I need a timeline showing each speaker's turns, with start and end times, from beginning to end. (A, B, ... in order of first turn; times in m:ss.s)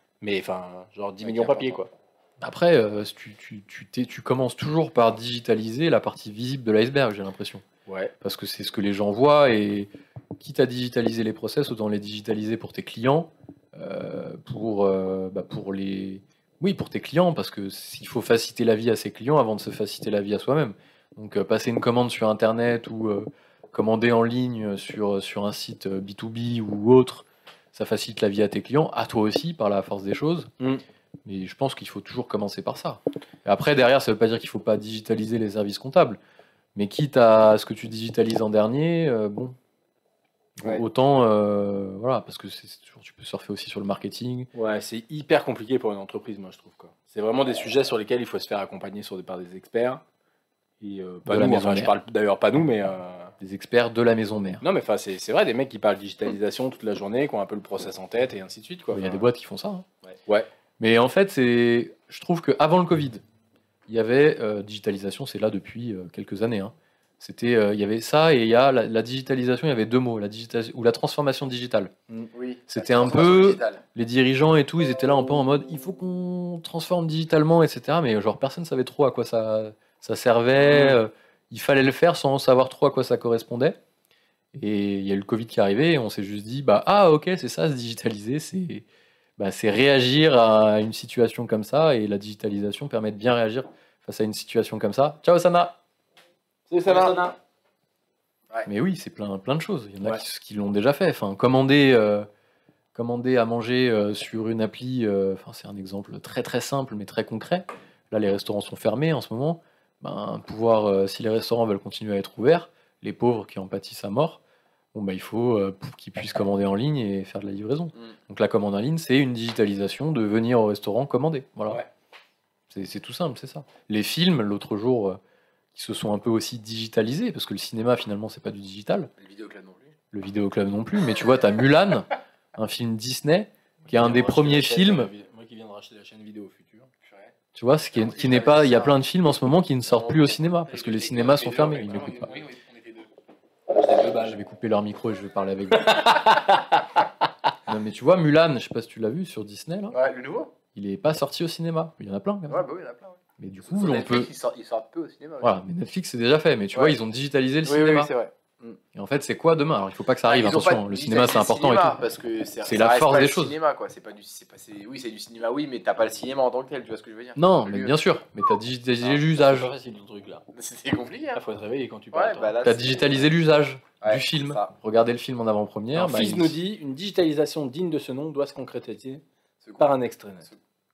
0:00.2-0:01.9 A
0:01.2-0:01.8 B
0:02.4-0:07.6 C
0:07.8-0:08.1 A
0:08.2-0:30.5 C
0:31.2-0:36.2 C
0:36.7-0:39.6 C
0:40.6-0:44.5 C
0:44.5-0:50.0 A
0:50.8-0:53.3 A
0:51.3-0:51.9 C
0:53.4-0:54.6 C
0:54.6-0:59.2 A
0:58.9-0:59.8 C
1:00.1-1:00.5 A
1:00.8-1:03.2 C
1:03.9-1:11.9 C
1:12.3-1:13.8 B
1:12.7-1:23.8 C
1:20.6-1:21.0 A
1:24.5-1:28.8 C
1:29.4-1:35.8 C
1:36.7-1:37.4 A
1:36.8-1:37.2 B
1:38.6-1:42.3 C
1:42.9-1:54.4 C
1:54.9-2:01.8 C
2:02.7-2:05.2 C
2:05.7-2:09.1 C
2:09.2-2:09.9 B
2:10.1-2:15.1 C
2:13.9-2:16.9 A
2:17.0-2:17.3 B
2:17.5-2:22.4 C
2:17.9-2:19.0 B
2:19.9-2:23.1 B
2:23.7-2:24.4 B
2:24.0-2:26.5 C
2:25.9-2:26.6 A
2:27.7-2:30.0 C
2:29.9-2:30.5 B
2:30.7-2:32.6 C
2:32.5-2:35.6 B
2:33.4-2:34.3 C
2:35.4-2:38.1 C
2:37.6-2:38.8 B
2:38.9-2:42.0 C
2:40.2-2:48.0 B
2:42.6-2:43.6 C
2:47.4-2:49.7 C
2:49.0-2:50.4 A
2:50.5-2:51.4 B
2:51.3-2:52.6 A
2:52.1-2:53.3 B
2:52.6-2:56.6 C
2:54.0-2:54.7 B
2:55.9-2:59.2 A
2:59.6-2:59.9 B
2:59.8-3:00.5 A